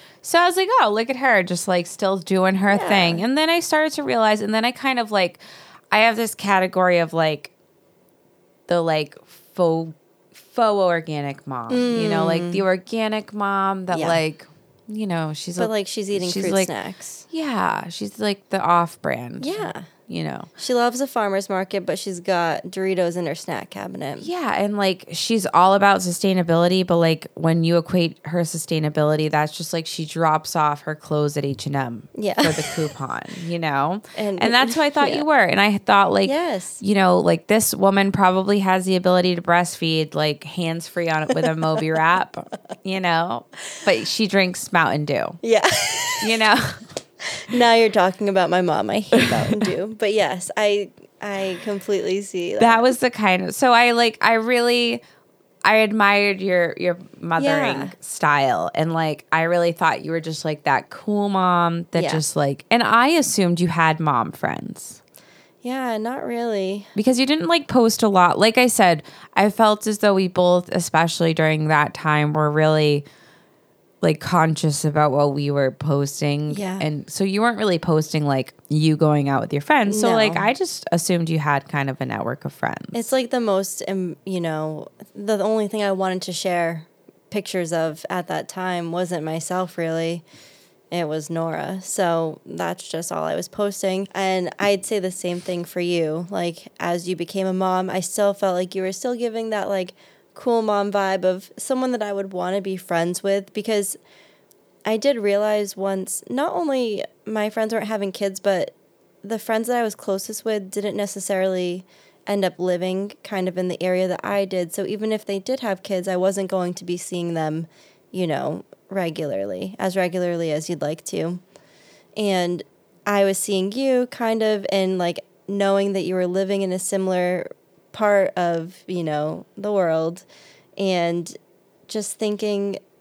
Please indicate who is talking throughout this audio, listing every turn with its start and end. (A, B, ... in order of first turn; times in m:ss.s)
0:00.2-0:07.5 A
0:02.7-0:03.2 B
0:08.7-0:16.7 A
0:11.7-0:12.6 B
0:13.9-0:14.2 B
0:15.6-0:17.3 B
0:17.3-0:20.5 A
0:19.4-0:19.9 B
0:20.6-0:24.3 B
0:24.2-0:45.4 A
0:32.2-0:32.8 B
0:34.2-0:35.3 B
0:36.2-0:36.8 B
0:45.4-0:46.4 B
0:46.2-0:46.8 A
0:47.5-0:52.9 B
0:49.2-0:49.7 A
0:52.6-0:55.0 A
0:55.6-1:05.0 A
0:57.4-0:58.0 B
1:02.0-1:02.2 B
1:05.6-1:06.9 B
1:07.0-1:13.0 A
1:14.0-1:23.0 A
1:16.5-1:16.8 B
1:19.9-1:20.5 B
1:22.9-1:30.2 B
1:30.9-1:44.0 B
1:44.9-2:01.4 B
2:02.2-2:10.3 B
2:10.8-2:11.4 B
2:11.9-2:12.8 B